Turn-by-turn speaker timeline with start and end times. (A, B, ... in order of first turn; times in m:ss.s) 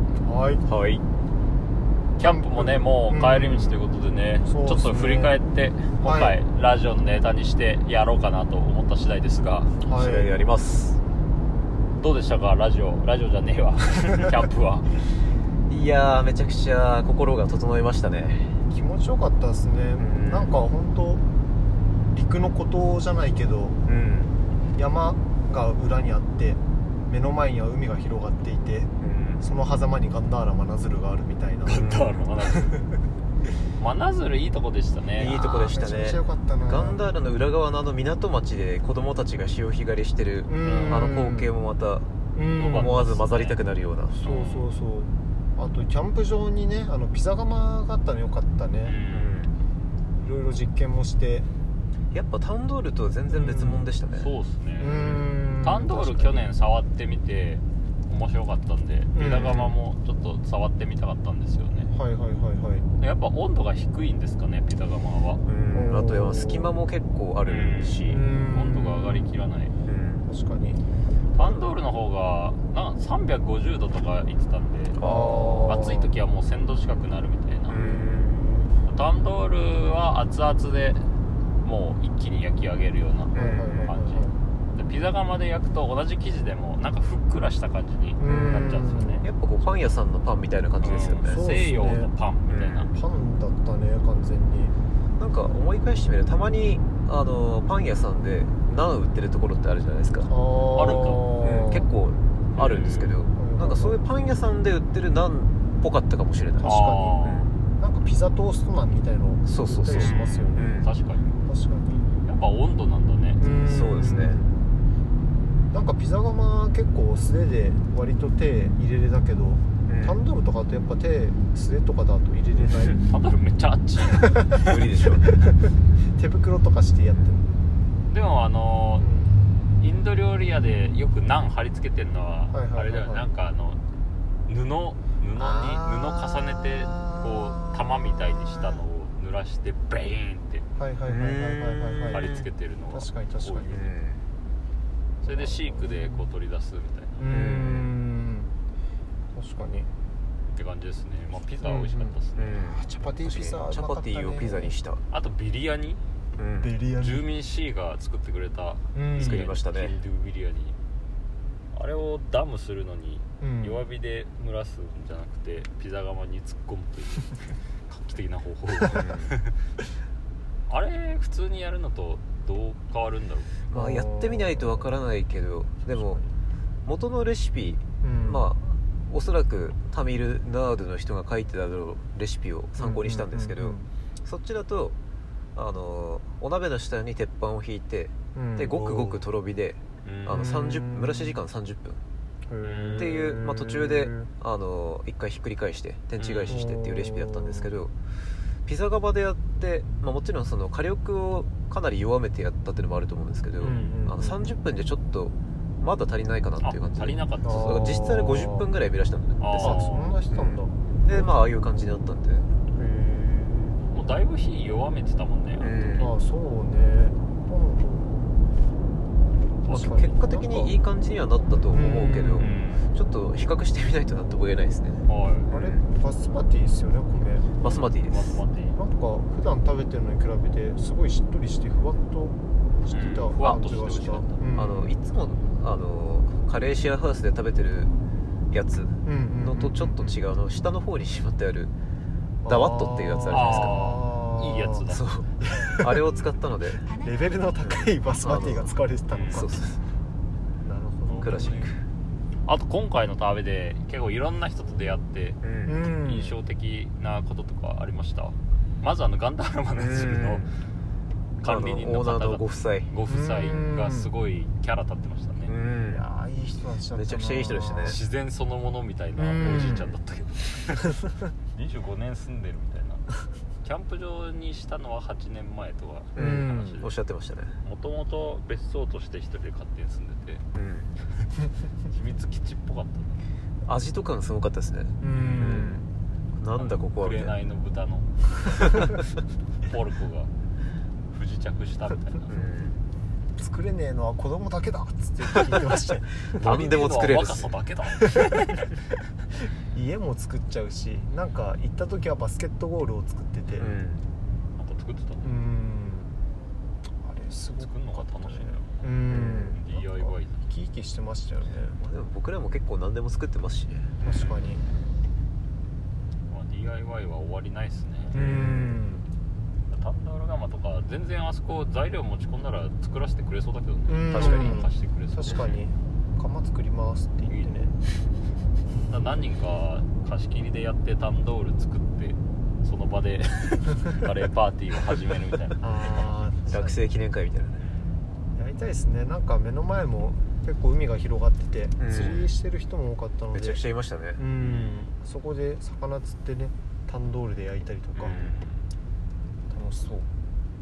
0:00.2-0:00.7 A
0:00.7-0:01.0 B
0:02.2-0:09.7 C
0:02.2-0:03.8 A
0:04.4-0:05.4 A
0:06.0-0:06.4 A
0:09.8-0:10.4 A
0:10.0-0:11.0 B
0:12.0-0:15.0 C
0:15.7-0:18.6 B
0:18.7-0:21.2 A
0:20.0-0:20.6 B
0:22.1-0:23.8 A
0:23.9-0:24.4 B
0:24.7-0:31.9 A
0:29.0-0:29.4 B
0:31.6-0:32.8 C
0:31.8-0:32.2 B
0:32.4-0:33.0 A
0:33.8-0:35.8 C
0:35.2-0:42.1 B
0:35.4-0:37.0 A
0:40.5-0:41.5 A
0:40.6-0:41.1 C
0:42.4-0:43.0 A
0:42.5-0:43.6 C
0:42.6-0:44.2 B
0:44.2-0:49.0 A
0:44.2-0:44.7 C
0:48.8-0:49.4 C
0:49.1-0:49.6 B
0:50.2-0:51.5 A
0:52.1-0:54.3 B
0:53.3-0:53.9 A
0:54.2-1:01.9 C
0:54.8-0:56.5 A
0:59.2-0:59.8 A
1:01.9-1:02.9 A
1:03.0-1:05.4 C
1:05.4-1:08.2 B
1:05.7-1:06.7 A
1:07.4-1:09.7 C
1:08.0-1:09.3 A
1:09.8-1:10.3 B
1:10.2-1:10.8 A
1:11.3-1:15.0 C
1:11.4-1:11.7 B
1:15.0-1:15.7 B
1:15.0-1:16.1 A
1:15.6-1:17.8 C
1:17.7-1:18.3 B
1:17.7-1:18.7 A
1:18.8-1:21.1 C
1:21.6-1:29.2 C
1:23.3-1:23.9 B
1:23.3-1:24.4 A
1:28.2-1:29.2 A
1:28.2-1:31.4 B
1:30.8-1:32.9 C
1:31.2-1:32.1 A
1:32.5-1:32.9 B
1:32.9-1:34.7 A
1:35.2-1:40.3 B
1:40.2-1:41.9 A
1:40.7-1:41.2 C
1:41.4-1:47.5 B
1:42.5-1:43.1 C
1:43.4-1:44.0 A
1:46.6-1:50.8 A
1:46.6-1:47.5 C
1:49.5-1:50.9 B
1:50.0-1:51.4 C
1:51.4-1:52.1 A
1:52.2-1:53.4 C
1:53.4-1:54.5 A
1:53.6-1:54.4 B
1:55.7-2:03.0 A
1:59.9-2:00.2 B
2:03.1-2:04.7 C
2:04.1-2:04.6 A
2:04.6-2:05.3 B
2:06.1-2:07.4 A
2:08.1-2:09.1 C
2:09.0-2:09.4 A
2:09.8-2:13.8 C
2:12.5-2:13.3 A
2:14.5-2:20.6 C
2:15.4-2:18.8 A
2:20.8-2:22.3 A
2:21.1-2:22.5 B
2:22.1-2:23.8 C
2:22.9-2:23.9 A
2:23.7-2:24.2 B
2:25.2-2:26.3 A
2:25.2-2:27.3 C
2:27.2-2:28.5 A
2:27.3-2:27.9 B
2:29.4-2:29.9 A
2:30.5-2:32.6 C
2:31.6-2:34.7 A
2:32.4-2:35.0 B
2:35.1-2:36.0 C
2:36.4-2:36.7 B
2:36.6-2:37.3 A
2:37.0-2:40.8 C
2:39.0-2:39.4 A
2:39.2-2:40.0 B
2:41.7-2:47.4 C
2:43.4-2:43.8 A
2:47.9-2:49.6 C
2:48.9-2:49.3 B
2:50.7-2:53.6 C
2:53.7-2:55.0 A
2:53.7-2:56.2 B
2:55.9-2:56.3 C
2:56.9-3:05.0 B
2:58.0-2:58.5 A
3:02.8-3:03.9 A
3:05.6-3:12.0 B
3:08.4-3:08.9 A
3:08.8-3:09.2 C
3:10.0-3:10.4 C
3:10.3-3:11.4 A
3:12.5-3:14.3 A
3:12.6-3:13.1 C
3:13.0-3:17.9 B
3:16.2-3:16.6 C
3:16.5-3:17.7 A
3:18.7-3:32.5 B
3:23.6-3:24.0 C
3:23.6-3:24.5 A
3:26.6-3:27.8 C
3:27.4-3:28.7 A
3:29.4-3:30.2 C
3:29.6-3:31.4 A
3:32.7-3:33.8 A
3:33.9-3:36.1 C
3:35.6-3:36.1 B
3:35.9-3:38.3 A
3:39.6-3:40.7 A
3:39.7-3:45.9 B
3:41.7-3:42.6 A
3:42.4-3:42.9 C
3:45.1-3:45.5 C
3:45.5-3:47.5 A
3:47.6-3:48.4 B
3:47.6-3:48.8 C
3:48.7-3:55.0 A
3:52.9-3:54.4 C
3:54.6-3:57.9 B
3:58.5-4:01.7 B
3:59.0-4:00.0 A
4:02.4-4:06.2 A
4:02.5-4:03.8 B
4:03.3-4:05.1 C
4:04.9-4:06.9 B
4:06.9-4:09.7 A
4:08.2-4:08.7 B
4:09.1-4:09.4 C
4:09.3-4:09.8 B
4:10.6-4:11.6 A
4:11.1-4:11.7 C
4:11.2-4:11.8 B
4:12.4-4:20.4 C
4:15.4-4:15.8 B
4:15.6-4:16.4 A
4:19.8-4:20.5 B
4:21.4-4:25.5 C
4:21.4-4:22.9 B
4:23.1-4:24.1 A
4:25.5-4:26.0 B
4:25.9-4:28.0 A
4:26.9-4:28.0 B
4:27.8-4:31.0 C
4:29.2-4:29.9 A
4:29.4-4:29.8 B
4:31.5-4:33.0 C
4:33.6-4:36.9 C
4:36.2-4:36.8 A
4:36.2-4:37.6 B
4:37.6-4:40.4 C
4:40.6-4:40.9 B
4:41.9-4:43.2 C
4:43.6-4:45.8 B
4:45.0-4:45.9 A
4:45.1-4:45.7 C
4:46.4-4:47.4 B
4:46.5-4:48.9 C
4:49.7-4:50.3 C
4:51.1-4:52.5 C
4:52.3-4:52.8 B
4:53.4-4:56.6 A
4:56.3-4:57.5 B
4:56.4-4:58.6 C
4:58.0-4:58.3 A
4:59.7-5:03.8 A
5:03.6-5:04.1 B
5:04.6-5:05.4 C
5:05.2-5:06.1 A
5:07.0-5:11.8 A
5:07.6-5:10.4 C
5:09.1-5:09.6 B
5:11.8-5:14.1 B
5:14.0-5:14.6 A
5:16.3-5:18.2 C
5:18.1-5:19.1 A
5:18.1-5:18.8 B
5:19.7-5:25.6 C
5:23.9-5:27.8 A
5:24.1-5:24.6 B
5:28.9-5:35.6 C
5:35.6-5:36.8 A
5:36.5-5:37.7 B
5:38.4-5:43.6 A
5:41.8-5:42.2 B
5:41.9-5:42.3 C
5:43.3-5:44.2 B
5:44.2-5:48.2 A
5:44.4-5:44.9 C
5:48.0-5:48.6 C
5:49.5-5:50.1 A